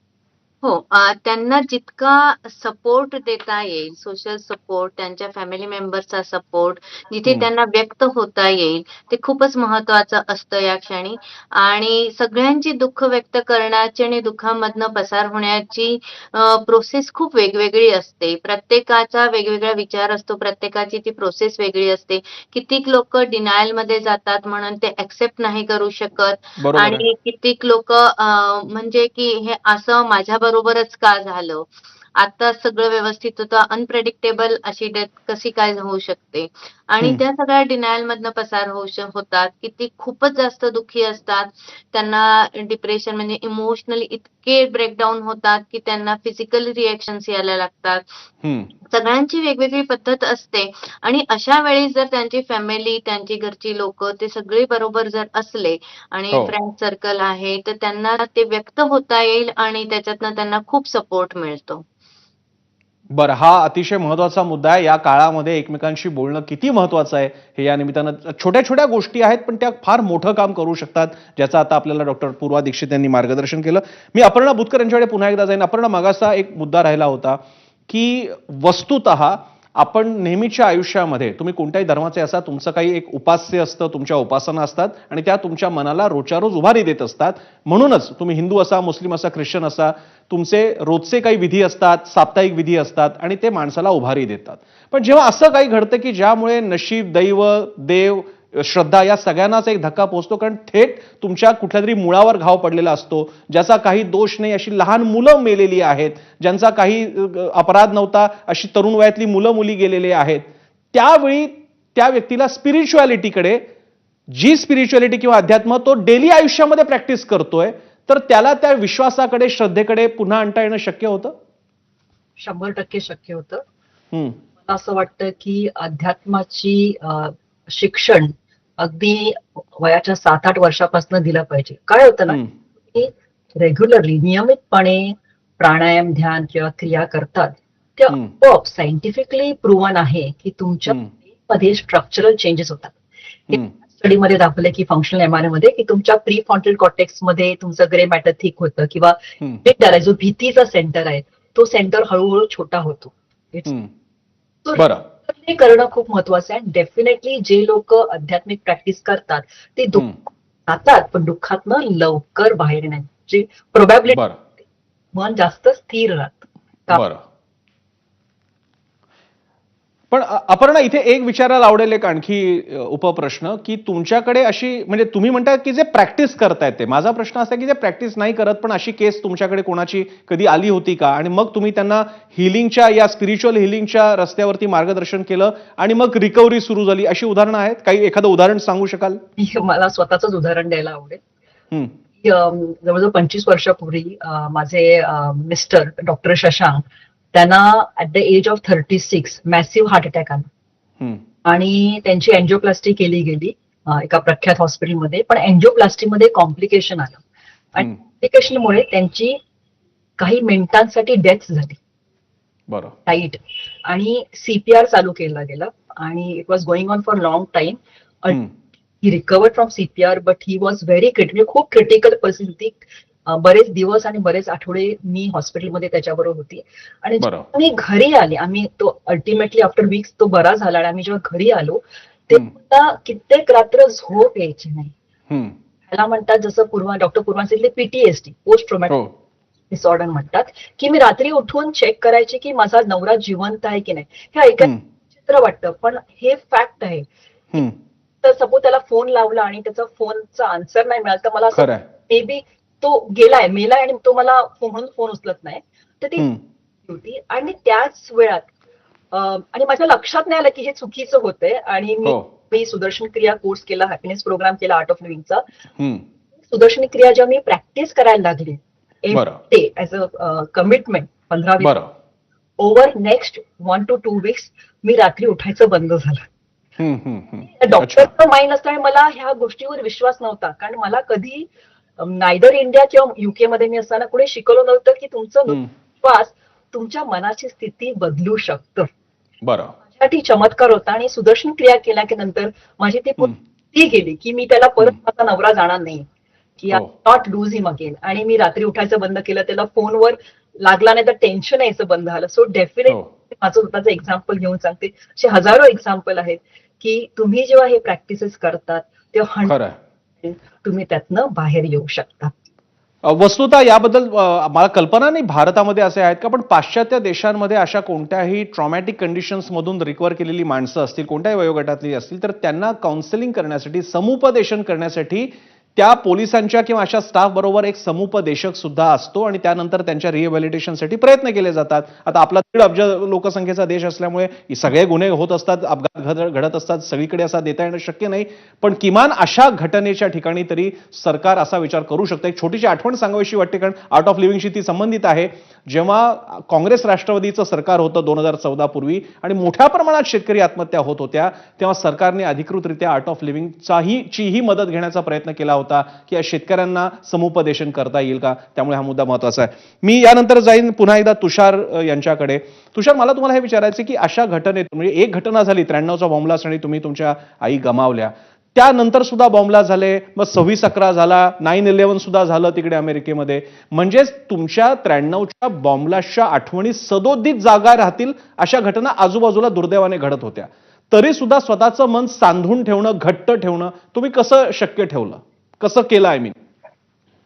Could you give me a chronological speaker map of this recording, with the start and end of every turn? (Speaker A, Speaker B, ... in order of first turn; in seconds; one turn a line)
Speaker A: 0.6-48.0
Speaker B: 26.6-27.0
Speaker B: 48.4-48.7
Speaker A: 48.9-61.8
Speaker B: 63.1-113.6
Speaker B: 114.3-121.3
Speaker C: 122.4-123.6
Speaker B: 124.1-124.4
Speaker C: 124.6-132.4
Speaker C: 132.9-142.9
Speaker C: 143.5-153.7
Speaker B: 153.7-153.9
Speaker C: 154.6-160.1
Speaker B: 154.8-155.1
Speaker C: 160.7-164.2
Speaker B: 164.1-164.3
Speaker C: 165.1-167.0
Speaker B: 166.9-167.2
Speaker B: 170.1-189.2
Speaker C: 189.4-191.2
Speaker C: 192.2-200.5
Speaker C: 201.4-207.2
Speaker C: 207.7-209.4
Speaker C: 210.2-211.8
Speaker B: 212.7-212.9
Speaker C: 213.1-218.4
Speaker C: 219.0-234.9
Speaker B: 227.2-227.5
Speaker B: 235.3-235.6
Speaker C: 235.9-239.0
Speaker C: 239.7-244.7
Speaker C: 245.2-247.1
Speaker C: 248.2-256.3
Speaker B: 251.5-251.9
Speaker C: 256.9-258.5
Speaker C: 259.1-265.4
Speaker B: 265.8-266.0
Speaker C: 266.5-271.8
Speaker B: 269.1-269.4
Speaker B: 271.6-271.9
Speaker C: 272.6-276.2
Speaker B: 276.8-278.1
Speaker C: 277.4-288.9
Speaker B: 289.4-289.7
Speaker C: 289.9-296.1
Speaker C: 296.6-309.6
Speaker B: 309.4-309.8
Speaker C: 310.2-312.3
Speaker B: 313.0-386.4